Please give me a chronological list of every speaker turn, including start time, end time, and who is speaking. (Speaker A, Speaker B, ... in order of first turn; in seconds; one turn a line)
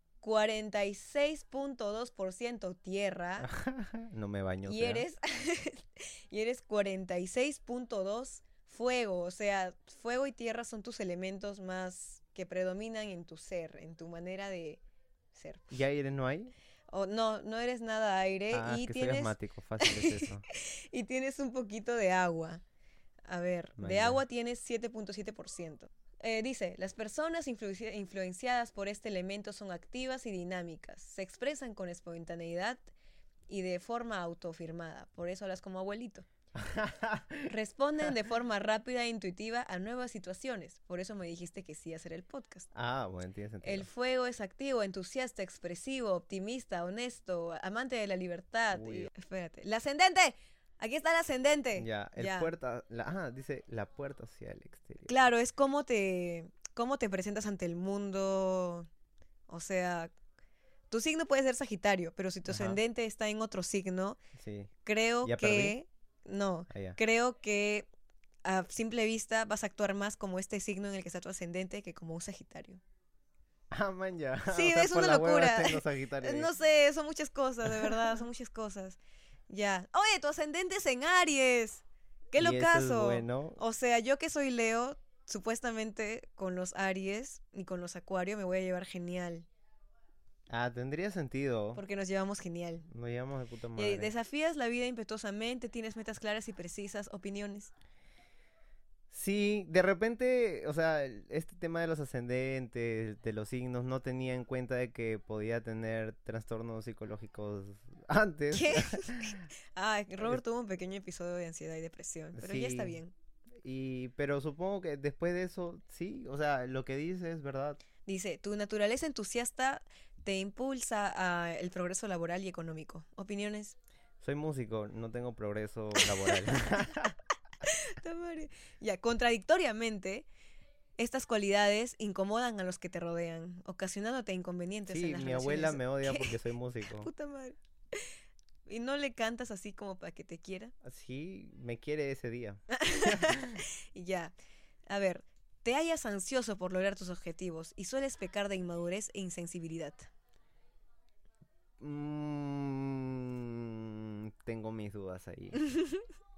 Speaker A: 0.2-3.5
Speaker B: 3.4-5.0
Speaker A: 4.7-14.8
Speaker A: 15.3-15.7
Speaker B: 15.7-16.5
Speaker A: 16.9-22.6
Speaker B: 18.5-20.4
Speaker A: 23.3-32.9
Speaker B: 23.8-24.2
Speaker A: 33.5-36.2
Speaker B: 36.5-37.5
Speaker A: 37.5-42.7
Speaker B: 42.7-43.9
Speaker A: 43.6-52.5
Speaker B: 48.7-49.1
Speaker B: 51.8-55.1
Speaker A: 55.1-58.9
Speaker A: 59.5-60.1
Speaker A: 60.9-64.2
Speaker B: 62.5-62.8
Speaker B: 64.4-64.7
Speaker A: 64.8-67.9
Speaker B: 65.2-65.8
Speaker B: 66.7-67.0
Speaker A: 68.4-72.8
Speaker B: 73.7-76.5
Speaker A: 74.5-89.5
Speaker B: 77.6-78.1
Speaker B: 82.4-83.6
Speaker B: 90.5-91.8
Speaker A: 91.7-92.9
Speaker B: 92.9-94.1
Speaker A: 93.8-97.7
Speaker B: 99.1-109.4
Speaker A: 108.5-113.1
Speaker B: 112.4-113.0
Speaker B: 113.6-117.8
Speaker A: 118.0-123.8
Speaker B: 124.2-127.2
Speaker A: 127.6-130.3
Speaker A: 131.0-136.4
Speaker B: 134.9-137.1
Speaker A: 136.9-138.1
Speaker A: 138.7-140.7
Speaker B: 140.8-143.6
Speaker A: 142.7-144.3
Speaker A: 144.9-150.1
Speaker B: 151.8-155.6
Speaker A: 155.5-156.1